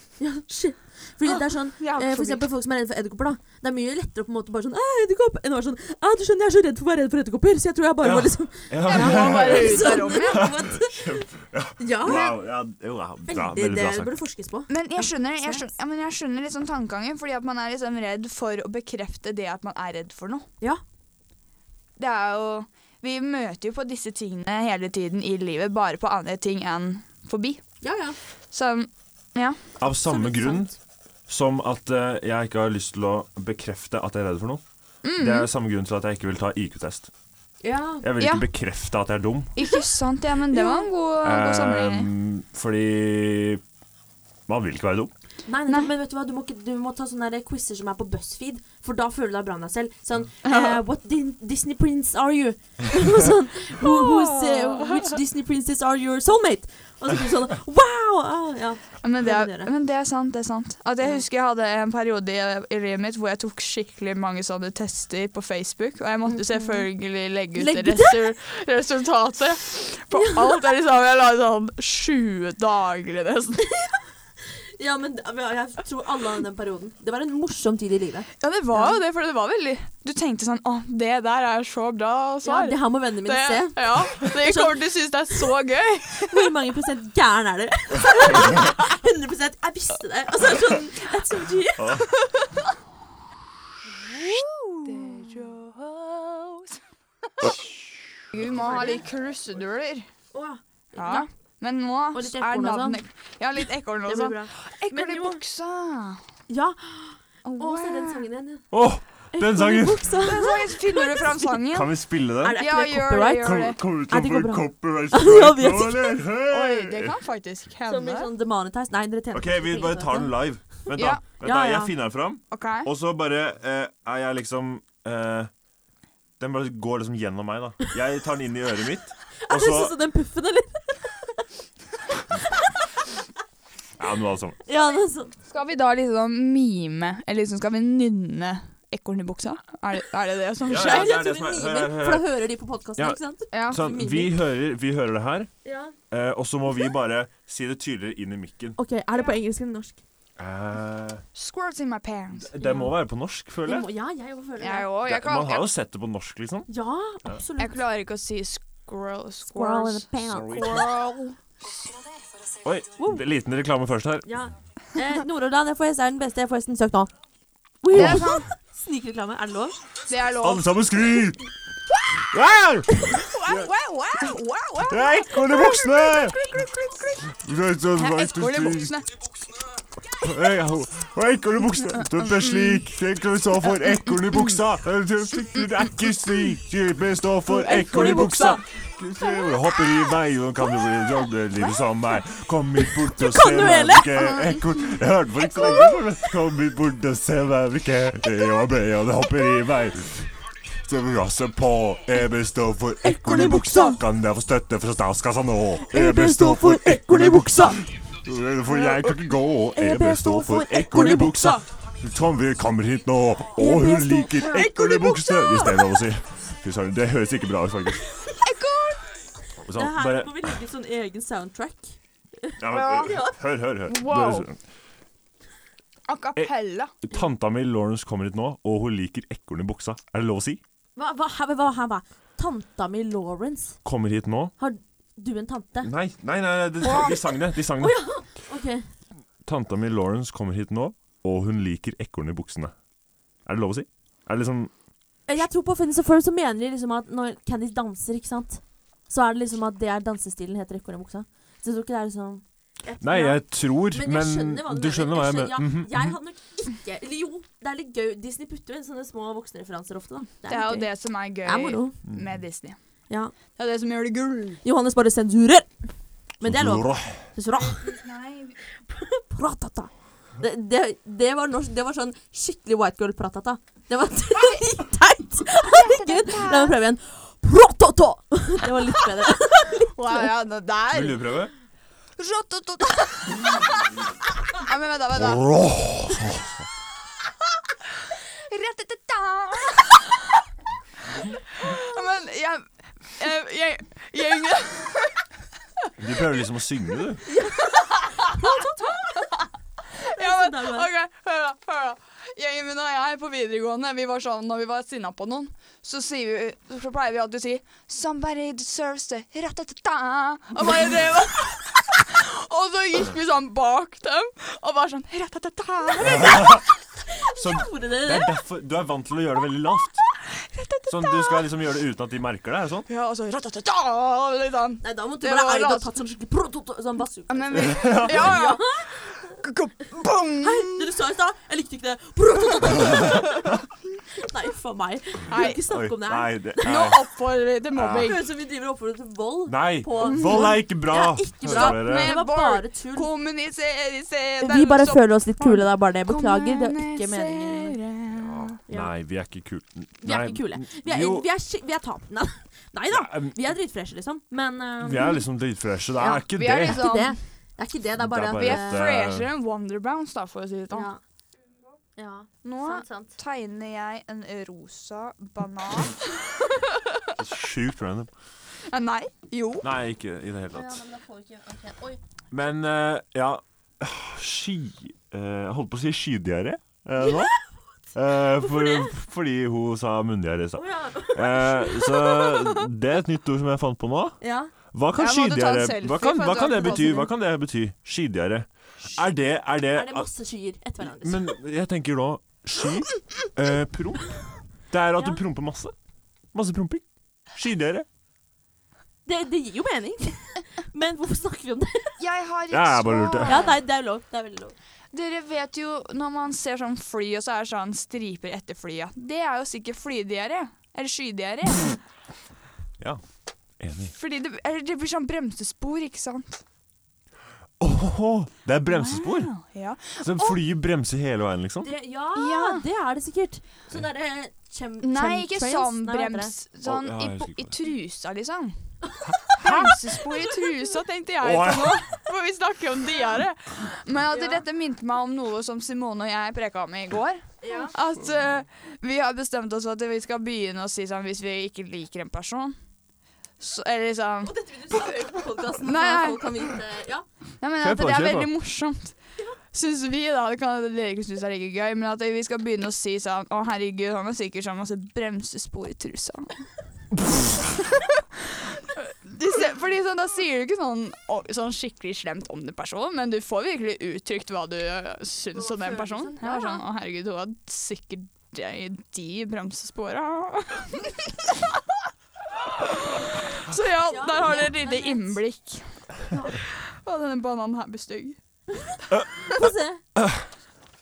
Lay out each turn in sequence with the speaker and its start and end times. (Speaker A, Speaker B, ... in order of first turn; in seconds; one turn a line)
Speaker A: 0.2-12.4
Speaker B: 1.3-2.4
Speaker C: 8.0-14.1
Speaker B: 8.8-10.5
Speaker A: 13.3-15.7
Speaker B: 14.7-20.5
Speaker B: 22.0-27.6
Speaker A: 27.8-28.2
Speaker B: 28.5-29.6
Speaker C: 29.8-30.7
Speaker A: 29.8-30.7
Speaker C: 31.3-34.6
Speaker B: 35.0-35.5
Speaker C: 35.2-37.1
Speaker A: 37.6-38.1
Speaker C: 38.0-39.5
Speaker B: 38.2-38.4
Speaker B: 39.5-42.1
Speaker A: 40.5-40.9
Speaker C: 41.2-43.6
Speaker C: 44.5-45.1
Speaker A: 45.5-59.7
Speaker B: 50.4-50.8
Speaker B: 53.8-55.1
Speaker B: 59.0-73.7
Speaker A: 66.3-66.9
Speaker A: 67.5-68.2
Speaker A: 70.1-70.6
Speaker A: 74.8-79.0
Speaker B: 78.4-86.5
Speaker A: 82.4-84.8
Speaker A: 86.2-92.0
Speaker C: 91.8-92.1
Speaker B: 92.2-92.5
Speaker B: 93.9-96.8
Speaker B: 98.3-100.0
Speaker A: 98.4-99.0
Speaker A: 100.3-101.2
Speaker B: 101.0-106.2
Speaker A: 102.1-103.0
Speaker A: 104.0-105.4
Speaker A: 106.5-108.7
Speaker B: 107.4-108.2
Speaker C: 108.7-110.2
Speaker A: 109.3-111.5
Speaker B: 110.2-111.9
Speaker C: 111.7-112.6
Speaker A: 112.4-116.2
Speaker B: 112.6-113.8
Speaker C: 113.4-117.2
Speaker B: 116.5-118.3
Speaker A: 117.9-120.4
Speaker C: 119.3-125.5
Speaker B: 120.9-121.2
Speaker A: 121.4-121.9
Speaker B: 122.5-122.9
Speaker C: 126.4-129.9
Speaker A: 129.4-131.4
Speaker A: 132.4-132.7
Speaker C: 134.0-134.6
Speaker A: 134.6-135.3
Speaker B: 135.5-141.1
Speaker C: 140.7-142.3
Speaker A: 140.7-144.3
Speaker C: 143.0-145.5
Speaker B: 143.5-143.8
Speaker A: 145.6-145.9
Speaker C: 146.1-148.8
Speaker A: 148.8-150.0
Speaker C: 150.4-151.2
Speaker B: 151.3-152.8
Speaker C: 152.3-153.9
Speaker A: 152.6-152.9
Speaker A: 153.6-154.9
Speaker B: 154.6-155.7
Speaker C: 155.1-156.7
Speaker A: 156.7-157.8
Speaker B: 157.6-161.8
Speaker A: 159.5-160.8
Speaker C: 160.3-160.9
Speaker C: 162.6-164.3
Speaker A: 163.0-163.2
Speaker A: 164.2-167.1
Speaker A: 167.8-169.8
Speaker C: 167.9-168.4
Speaker B: 167.9-168.5
Speaker B: 170.1-171.2
Speaker C: 170.4-171.4
Speaker C: 172.3-173.7
Speaker B: 173.2-177.3
Speaker C: 174.8-176.5
Speaker C: 177.3-179.0
Speaker B: 177.9-179.1
Speaker C: 180.1-218.0
Speaker B: 181.8-182.8
Speaker B: 184.1-184.5
Speaker B: 187.5-188.6
Speaker A: 187.9-188.6
Speaker A: 192.9-194.3
Speaker B: 194.1-194.8
Speaker A: 195.5-195.9
Speaker A: 203.0-204.0
Speaker A: 205.9-207.8
Speaker A: 208.7-209.1
Speaker A: 209.7-211.7
Speaker A: 213.6-215.9
Speaker A: 218.2-218.5
Speaker B: 218.4-219.0
Speaker C: 219.6-220.5
Speaker A: 219.7-223.4
Speaker C: 222.6-224.6
Speaker B: 222.7-223.2
Speaker B: 223.8-224.5
Speaker B: 226.1-227.0
Speaker C: 226.3-230.6
Speaker A: 230.9-233.8
Speaker C: 233.8-234.5
Speaker A: 234.6-235.9
Speaker C: 235.8-238.0
Speaker B: 236.8-237.2
Speaker A: 236.8-237.2
Speaker A: 237.8-238.8
Speaker C: 239.4-242.7
Speaker C: 243.4-244.7
Speaker A: 245.3-260.9
Speaker C: 253.0-256.2
Speaker B: 260.5-262.8
Speaker A: 261.4-262.0
Speaker C: 262.1-262.3
Speaker B: 263.6-264.6
Speaker A: 264.6-265.7
Speaker A: 266.4-268.0
Speaker C: 266.4-267.3
Speaker B: 267.6-268.6
Speaker A: 268.9-280.3
Speaker B: 275.6-276.8
Speaker B: 279.9-281.4
Speaker C: 280.9-281.5
Speaker B: 282.2-283.9
Speaker B: 284.4-285.5
Speaker C: 285.1-286.7
Speaker B: 288.1-290.4
Speaker B: 291.5-295.2
Speaker C: 296.0-297.2
Speaker A: 297.2-299.2
Speaker B: 297.7-299.4
Speaker B: 300.0-316.5
Speaker A: 300.1-300.9
Speaker A: 310.6-311.3
Speaker A: 316.0-318.3
Speaker C: 316.0-316.6
Speaker C: 317.3-320.0
Speaker B: 320.2-321.5
Speaker C: 320.9-322.9
Speaker B: 322.9-325.9
Speaker A: 324.8-329.4
Speaker B: 327.3-330.9
Speaker C: 327.5-328.4
Speaker A: 330.4-333.5
Speaker B: 332.9-333.5
Speaker A: 334.1-336.9
Speaker B: 335.3-335.6
Speaker C: 335.7-337.0
Speaker B: 336.6-338.2
Speaker C: 337.7-338.2
Speaker A: 338.0-343.1
Speaker C: 339.5-342.2
Speaker B: 340.1-340.6
Speaker B: 341.4-348.6
Speaker A: 344.4-347.8
Speaker C: 348.1-351.3
Speaker A: 350.0-355.2
Speaker C: 352.9-353.4
Speaker C: 354.8-356.8
Speaker A: 356.0-358.9
Speaker B: 356.3-357.2
Speaker C: 358.0-359.3
Speaker B: 358.3-360.9
Speaker A: 360.7-361.0
Speaker A: 361.9-363.1
Speaker B: 362.4-367.1
Speaker C: 367.1-368.1
Speaker B: 368.7-369.7
Speaker C: 369.6-370.8
Speaker A: 370.5-372.0
Speaker C: 372.3-377.3
Speaker A: 377.0-377.4
Speaker C: 377.9-384.2
Speaker A: 378.4-378.9
Speaker A: 380.6-382.5
Speaker A: 384.2-384.5
Speaker C: 384.7-390.1
Speaker B: 385.0-387.1
Speaker A: 386.6-387.1
Speaker A: 389.7-391.3
Speaker C: 390.8-395.7
Speaker C: 396.3-397.9
Speaker A: 399.1-402.0
Speaker B: 402.0-403.5
Speaker C: 402.5-403.5
Speaker A: 403.2-404.5
Speaker B: 404.9-411.8
Speaker C: 413.6-413.9
Speaker B: 413.9-416.4
Speaker C: 417.6-419.3
Speaker B: 418.7-420.4
Speaker C: 420.0-421.7
Speaker A: 421.6-426.3
Speaker B: 422.1-422.6
Speaker B: 424.8-428.6
Speaker C: 426.6-427.5
Speaker A: 428.9-429.3
Speaker C: 429.1-429.8
Speaker B: 429.3-442.6
Speaker C: 431.2-431.9
Speaker A: 434.1-434.4
Speaker A: 437.4-437.8
Speaker B: 443.4-445.0
Speaker A: 444.2-447.0
Speaker B: 445.6-446.5
Speaker B: 447.4-448.9
Speaker C: 447.6-448.3
Speaker B: 449.5-456.5
Speaker B: 457.6-471.6
Speaker A: 465.3-466.6
Speaker B: 472.5-478.2
Speaker A: 473.8-475.2
Speaker A: 476.1-476.4
Speaker A: 478.5-479.8
Speaker C: 478.9-480.2